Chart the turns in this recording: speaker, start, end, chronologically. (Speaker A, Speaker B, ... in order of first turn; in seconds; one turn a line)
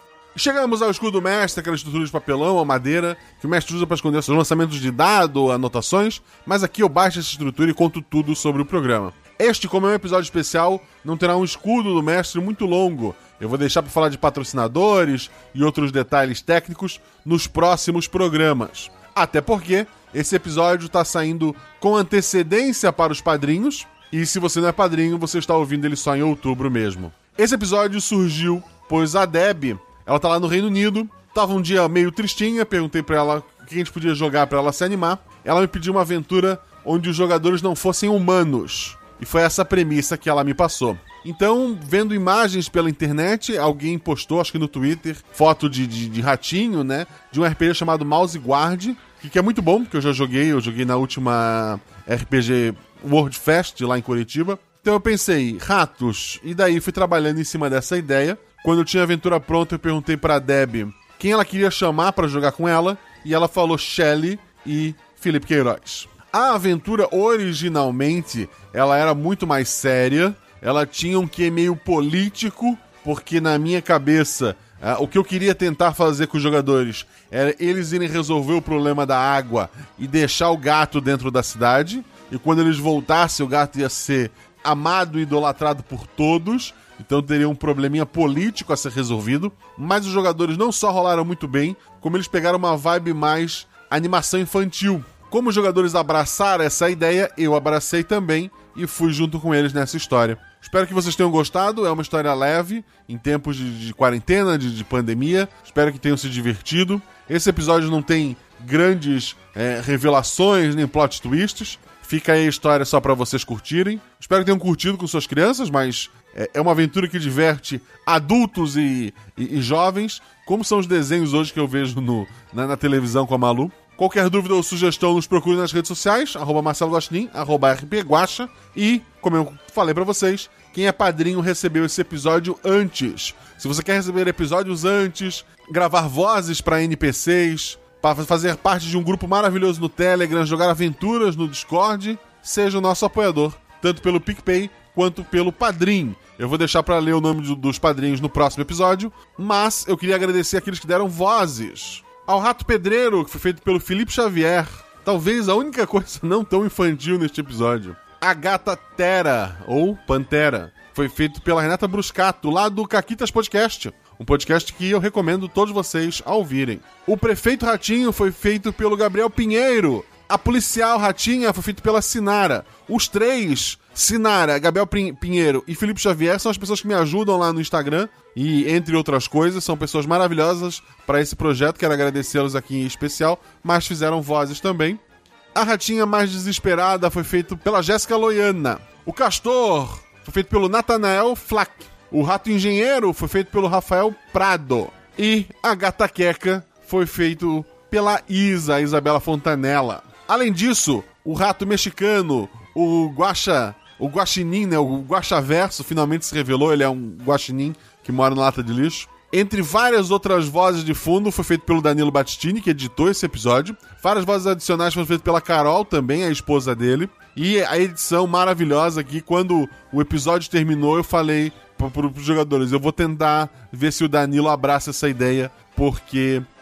Speaker A: 0.3-185.0
Speaker A: 185.5-226.5